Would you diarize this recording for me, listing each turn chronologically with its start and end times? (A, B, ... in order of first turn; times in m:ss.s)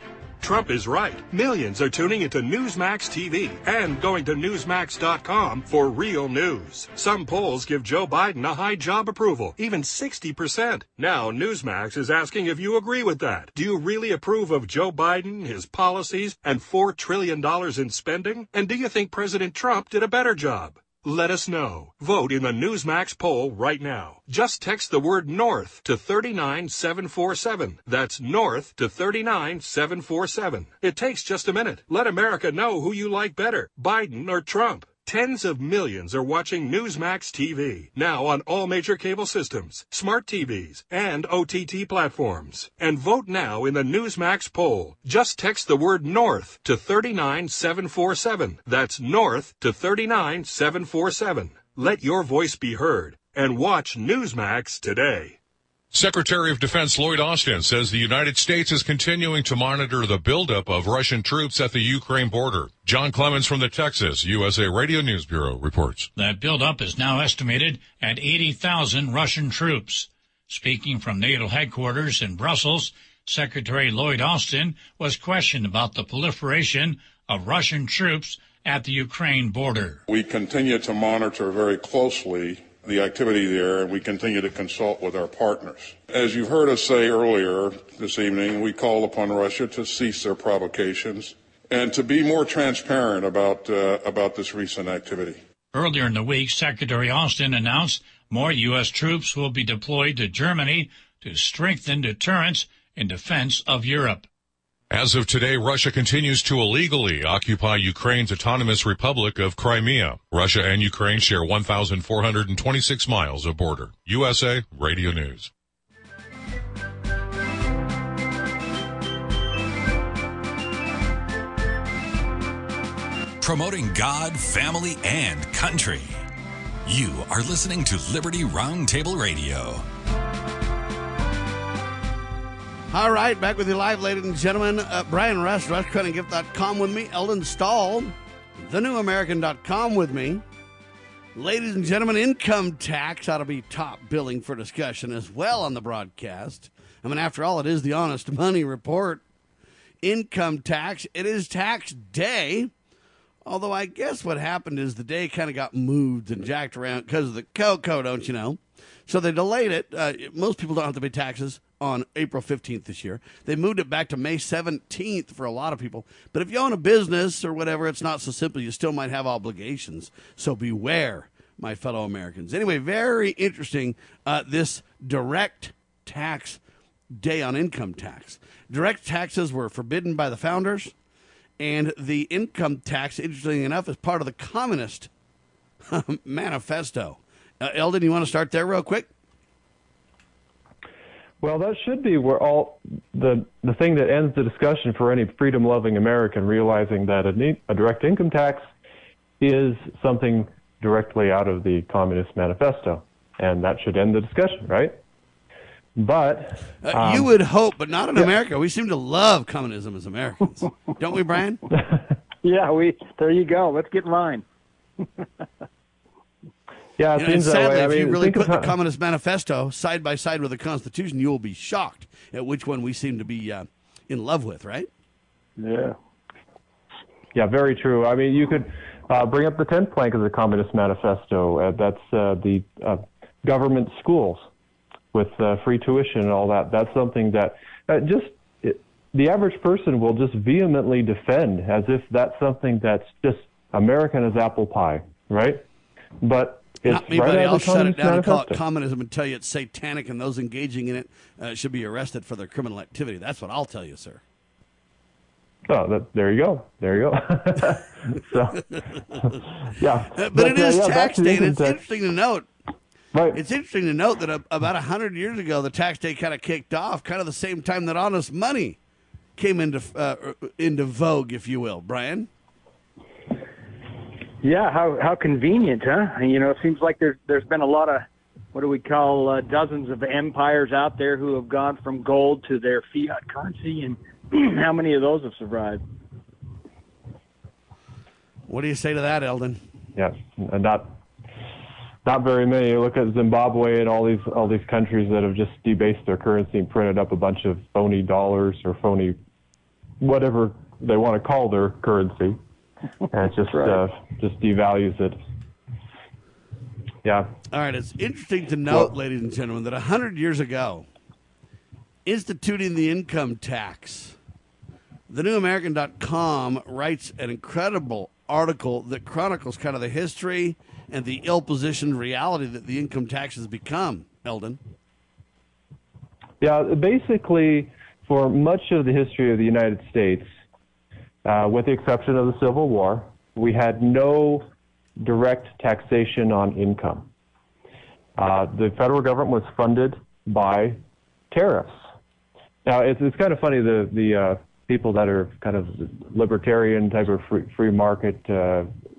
0:00.4-0:55.4 A
0:55.9-1:06.1 B
1:06.2-1:20.0 C
1:20.1-1:35.4 D
1:35.7-1:44.2 C
1:44.9-1:55.5 B
2:03.4-2:06.2 E
2:06.8-2:09.9 E
2:12.9-2:20.4 F
2:21.4-2:29.2 F
2:30.0-2:32.7 F
2:33.4-2:56.6 F
2:57.2-3:00.9 F
3:01.6-3:05.1 F
3:05.9-3:09.1 F
3:11.4-3:18.7 G
3:19.4-3:25.0 G
3:26.0-3:27.3 G
3:26.8-3:31.6 F
3:32.4-3:34.4 H
3:37.0-3:38.7 G
3:37.2-3:44.9 F
3:45.6-3:46.0 H
3:47.4-3:54.5 G
3:55.1-4:05.6 G
4:06.2-4:08.6 G
4:06.9-4:14.2 F
4:15.7-4:18.6 G
4:19.6-4:21.8 G
4:20.2-4:22.5 F
4:23.1-4:23.4 G
4:23.3-4:28.8 F
4:29.4-4:32.3 F
4:34.4-4:45.8 H
4:48.5-4:49.6 F
4:50.0-4:51.0 G
4:52.0-4:59.2 G
5:00.0-5:02.4 G
5:03.1-5:05.2 G
5:03.5-5:03.8 H
5:07.5-5:10.9 F
5:12.1-5:14.2 F
5:15.1-5:24.6 F
5:26.4-5:30.3 G
5:31.2-5:34.5 G
5:35.0-5:37.1 G
5:38.2-5:40.8 G
5:41.3-5:41.8 G
5:42.7-5:48.7 G